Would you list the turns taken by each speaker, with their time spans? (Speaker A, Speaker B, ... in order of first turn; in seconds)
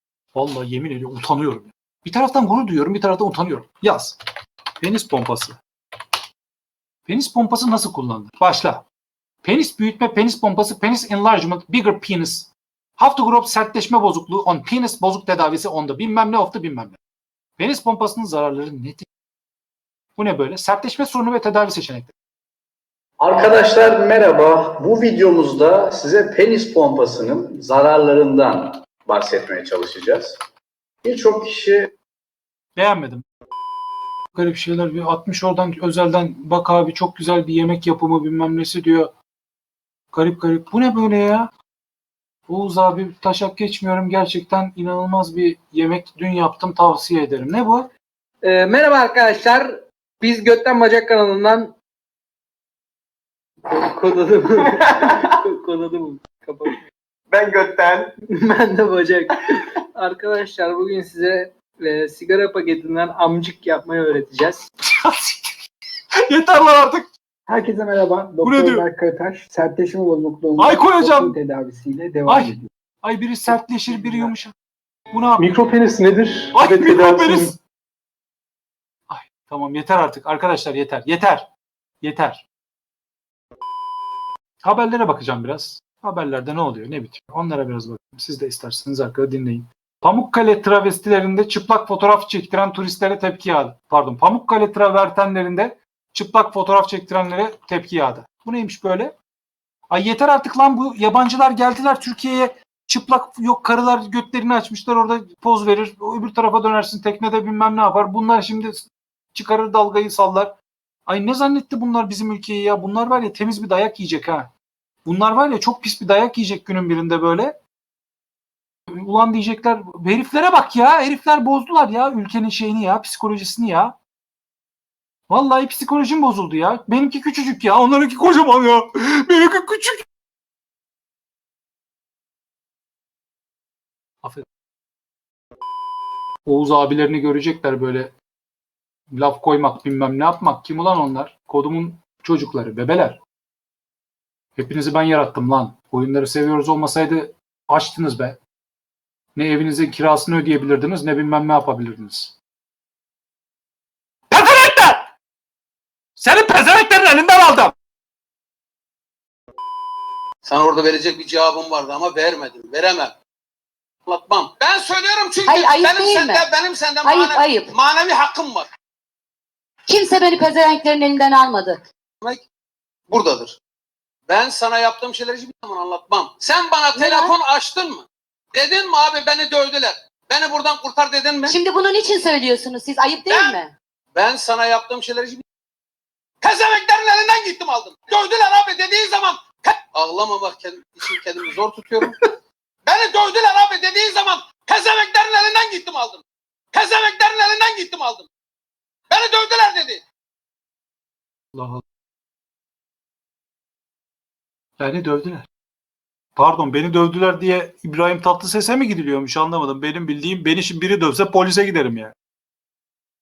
Speaker A: 0.3-4.2, 4.8-5.6, 7.1-8.8, 9.4-17.0, 17.6-19.1, 20.2-22.1, 32.8-33.2, 34.3-39.1, 40.1-41.5, 42.5-47.9, 64.9-65.6, 66.3-67.1, 68.4-68.8, 70.6-71.3, 72.3-74.5, 75.1-75.5, 76.5-77.6, 79.1-81.5, 82.0-82.4, 84.6-99.2, 99.9-110.5, 111.1-114.5, 115.0-117.6, 118.9-124.0, 125.3-130.1, 136.5-138.1, 139.1-143.2, 144.6-148.4, 149.3-152.4, 154.3-155.1, 156.2-157.7, 201.6-201.8, 204.8-205.5, 206.4-212.2
Speaker B: 23.2-30.4, 31.0-32.0
Speaker C: 48.4-51.8, 53.7-56.8, 58.3-64.7
Speaker D: 57.4-57.9, 75.4-77.6
Speaker E: 67.5-72.7
Speaker F: 160.4-163.2, 164.1-168.7, 173.1-173.6, 174.3-181.6, 183.3-183.6, 184.1-185.4, 186.4-192.2, 192.9-198.3, 199.1-200.0
Speaker G: 165.4-166.5, 167.0-167.7, 169.9-171.9, 176.9-177.4, 181.5-183.7